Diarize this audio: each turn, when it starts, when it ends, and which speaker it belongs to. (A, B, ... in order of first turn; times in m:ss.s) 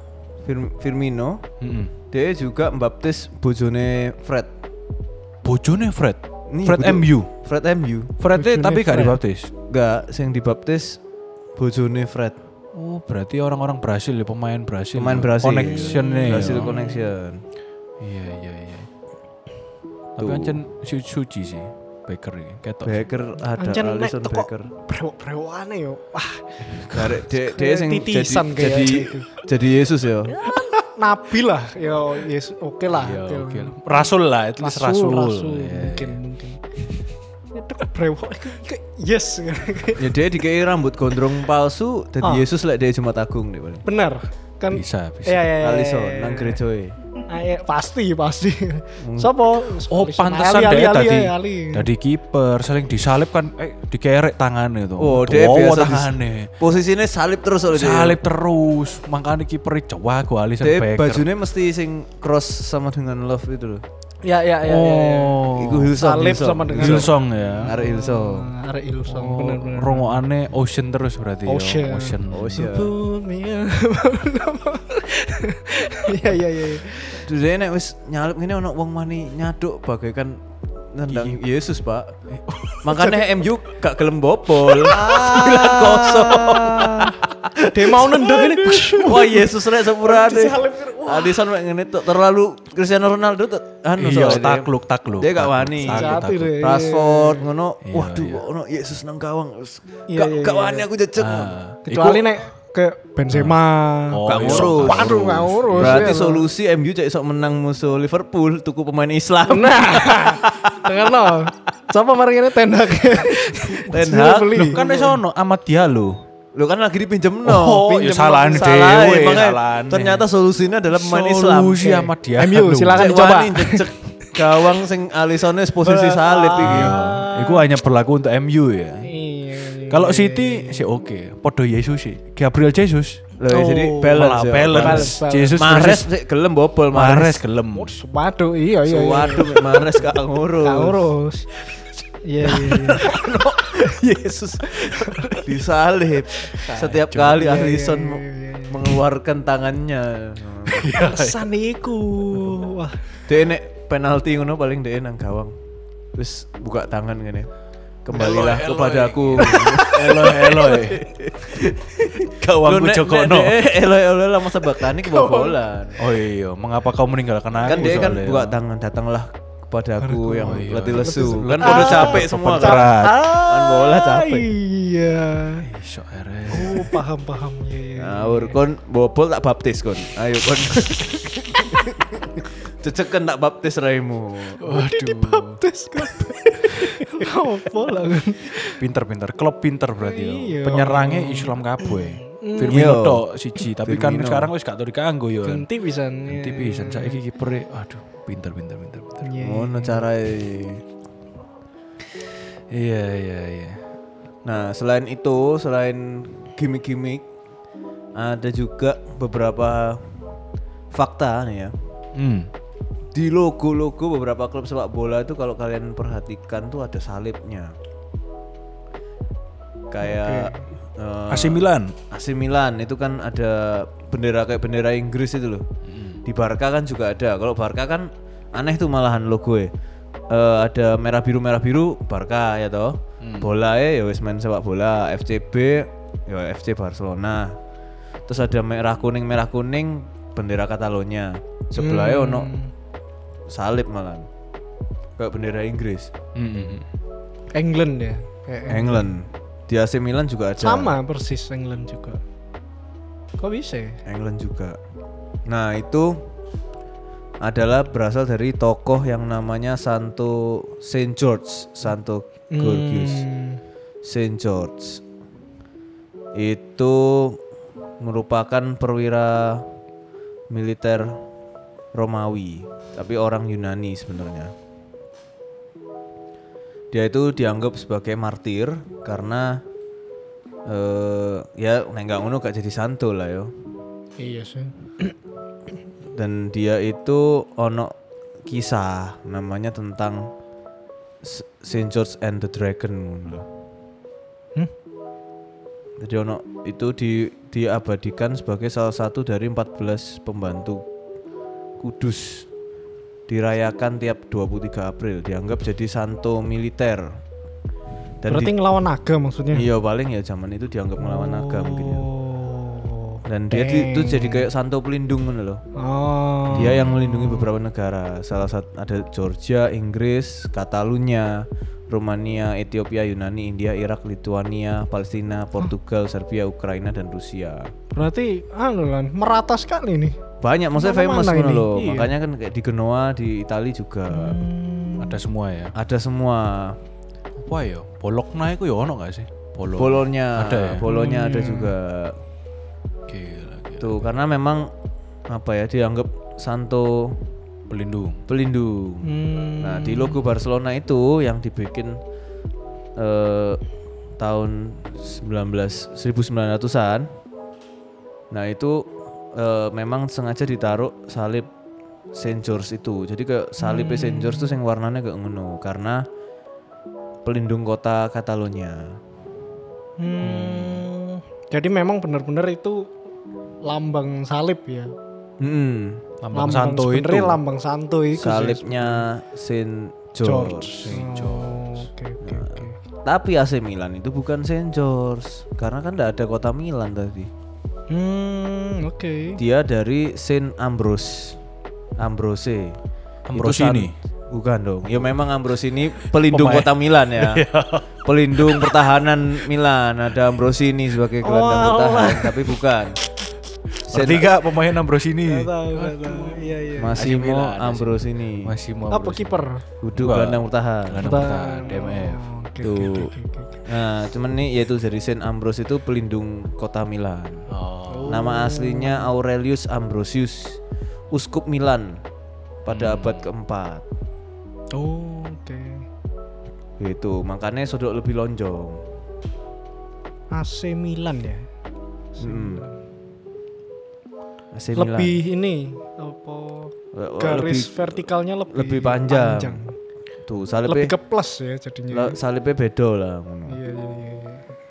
0:00.4-0:01.5 A
0:01.6-0:01.9 B
0:02.1-0:04.5 A
0:05.4-0:07.3 B
0:06.5-0:08.1 A
0:08.2-0:09.5 B
0:08.3-0:09.2 C
0:09.7-0:11.0 A
0:11.6-0:12.4 A
0:12.7-0:16.8 B
0:15.0-0:17.4 A
0:15.6-0:17.1 C
0:18.0-0:18.9 B
0:20.2-0:23.1 B
0:20.2-0:20.6 A
0:22.8-0:24.7 A
0:23.6-0:29.4 C
0:26.8-0:30.4 A
0:30.4-0:34.0 C
0:32.9-0:36.2 B
0:34.6-0:36.6 C
0:37.5-0:40.2 C
0:40.0-0:43.8 A
0:43.8-0:46.6 C
0:44.7-0:45.5 B
0:45.6-0:47.0 A
0:47.3-0:51.9 C
0:49.0-0:49.4 A
0:49.9-0:56.5 B
0:55.0-0:58.2 A
0:57.7-1:01.3 B
1:00.6-1:03.8 A
1:04.2-1:10.2 C
1:04.6-1:06.0 B
1:05.5-1:08.5 A
1:06.7-1:07.8 B
1:09.1-1:12.7 B
1:11.4-1:17.3 C
1:12.3-1:12.9 A
1:17.1-1:20.4 A
1:20.9-1:22.2 A
1:21.1-1:21.4 B
1:22.3-1:23.2 B
1:22.8-1:28.2 A
1:24.7-1:29.2 B
1:25.0-1:26.0 C
1:27.7-1:31.5 C
1:29.0-1:41.6 A
1:34.0-1:36.6 B
1:35.8-1:37.5 C
1:37.8-1:38.4 B
1:40.1-1:40.9 C
1:41.2-1:42.4 B
1:41.9-1:46.5 C
1:43.3-1:46.2 B
1:44.2-1:45.2 A
1:45.8-1:50.3 A
1:49.5-1:55.2 C
1:53.8-1:54.8 A
1:54.7-1:56.2 B
1:56.6-2:01.9 A
1:57.4-2:00.2 B
2:00.9-2:03.2 B
2:01.8-2:03.9 C
2:03.0-2:07.0 A
2:05.8-2:07.7 C
2:06.6-2:09.1 B
2:09.0-2:10.8 C
2:09.9-2:16.1 B
2:13.4-2:17.4 A
2:14.7-2:15.6 C
2:16.9-2:18.0 B
2:17.7-2:20.1 C
2:18.8-2:21.1 A
2:20.6-2:21.5 C
2:22.2-2:23.2 C
2:22.4-2:23.3 B
2:23.0-2:30.9 A
2:24.7-2:25.5 C
2:24.9-2:25.3 B
2:26.6-2:27.6 B
2:27.3-2:28.9 C
2:30.7-2:31.5 B
2:30.9-2:33.0 C
2:33.3-2:35.5 A
2:36.2-2:37.5 A
2:38.0-2:46.0 A
2:38.1-2:41.7 B
2:42.2-2:43.7 B
2:45.0-2:45.6 C
2:46.0-2:48.6 B
2:47.6-2:54.5 A
2:50.0-2:55.7 C
2:50.4-2:53.2 B
2:55.6-2:57.0 B
2:56.5-2:58.6 C
2:58.0-3:04.6 A
3:04.6-3:05.6 B
3:04.6-3:08.8 C
3:08.7-3:15.7 B
3:10.0-3:13.0 C
3:12.6-3:13.3 A
3:13.8-3:14.5 A
3:15.4-3:17.2 C
3:16.3-3:19.4 B
3:19.2-3:20.0 C
3:19.4-3:20.8 A
3:22.7-3:23.9 B
3:24.4-3:27.2 A
3:28.2-3:30.0 A
3:30.9-3:31.7 A
3:32.2-3:32.5 B
3:33.1-3:37.7 A
3:39.9-3:45.6 A
3:40.0-3:40.7 C
3:41.3-3:42.0 B
3:45.8-3:46.2 B
3:46.2-3:49.7 A
3:50.3-3:57.6 A
3:53.2-3:53.5 B
3:58.3-4:02.5 A
4:01.8-4:02.7 C
4:03.5-4:04.3 A
4:05.2-4:06.1 A
4:06.4-4:06.9 B
4:07.5-4:09.2 C
4:08.7-4:11.0 A
4:10.6-4:12.2 C
4:13.4-4:14.0 C
4:14.1-4:14.8 A
4:15.5-4:16.2 A
4:17.4-4:23.2 A
4:22.5-4:23.6 C
4:24.0-4:25.0 A
4:26.4-4:27.4 A
4:28.0-4:29.6 A
4:30.5-4:31.2 A
4:32.0-4:34.5 A
4:36.9-4:39.6 A
4:40.7-4:43.5 A
4:44.2-4:45.2 C
4:46.2-4:47.9 A
4:48.5-4:50.3 A
4:51.2-4:53.5 A
4:56.0-5:00.8 A
5:01.8-5:02.5 A
5:03.3-5:07.1 A
5:08.2-5:08.5 A
5:08.3-5:09.7 C
5:09.5-5:12.1 A
5:11.0-5:14.5 C
5:13.3-5:15.6 A
5:15.8-5:17.5 C
5:16.5-5:16.9 B
5:16.5-5:27.7 A
5:27.9-5:30.2 C
5:30.4-5:34.4 A
5:30.8-5:32.1 C
5:34.1-5:35.2 C
5:35.0-5:35.8 B
5:35.8-5:36.8 A
5:37.4-5:40.9 B
5:39.8-5:42.2 A
5:40.9-5:41.8 C
5:43.1-5:44.1 B
5:43.8-5:44.7 A
5:45.3-5:47.2 A
5:47.7-5:48.2 B
5:48.3-5:52.0 A
5:49.0-5:50.2 C
5:53.0-5:53.6 A
5:54.2-5:57.1 A
5:58.3-5:58.8 A
5:59.4-6:01.5 A
6:02.2-6:06.0 A
6:03.6-6:04.6 C
6:07.2-6:09.0 A
6:10.0-6:12.9 C
6:10.2-6:10.8 A
6:13.6-6:15.0 C
6:15.4-6:16.0 A
6:16.2-6:17.4 B
6:16.3-6:19.1 C
6:18.2-6:20.9 A
6:20.2-6:22.8 C
6:20.8-6:21.9 B
6:22.2-6:27.3 A
6:27.9-6:29.4 C
6:29.4-6:31.4 A
6:32.0-6:32.8 A
6:33.3-6:34.0 B
6:33.3-6:37.4 A
6:36.0-6:38.9 B
6:38.0-6:43.0 A
6:41.2-6:42.6 C
6:43.9-6:44.3 A
6:43.9-6:52.3 B
6:45.2-6:47.0 C
6:46.8-6:48.5 A
6:48.9-6:49.6 C
6:49.8-6:51.1 A
6:51.0-6:53.6 C
6:52.6-6:53.1 A
6:53.6-6:57.5 A
6:57.5-6:58.3 B
6:57.9-6:59.1 C
6:58.1-7:00.6 A
7:01.1-7:02.0 A
7:02.6-7:03.8 A
7:02.7-7:03.3 B
7:04.7-7:05.8 C
7:06.8-7:08.8 A
7:10.3-7:11.5 C
7:12.2-7:12.8 C
7:12.2-7:12.7 A
7:14.5-7:15.2 A
7:14.8-7:19.8 C
7:16.9-7:19.6 A
7:20.3-7:20.9 A
7:20.7-7:22.2 C
7:21.9-7:23.6 A
7:23.5-7:24.5 C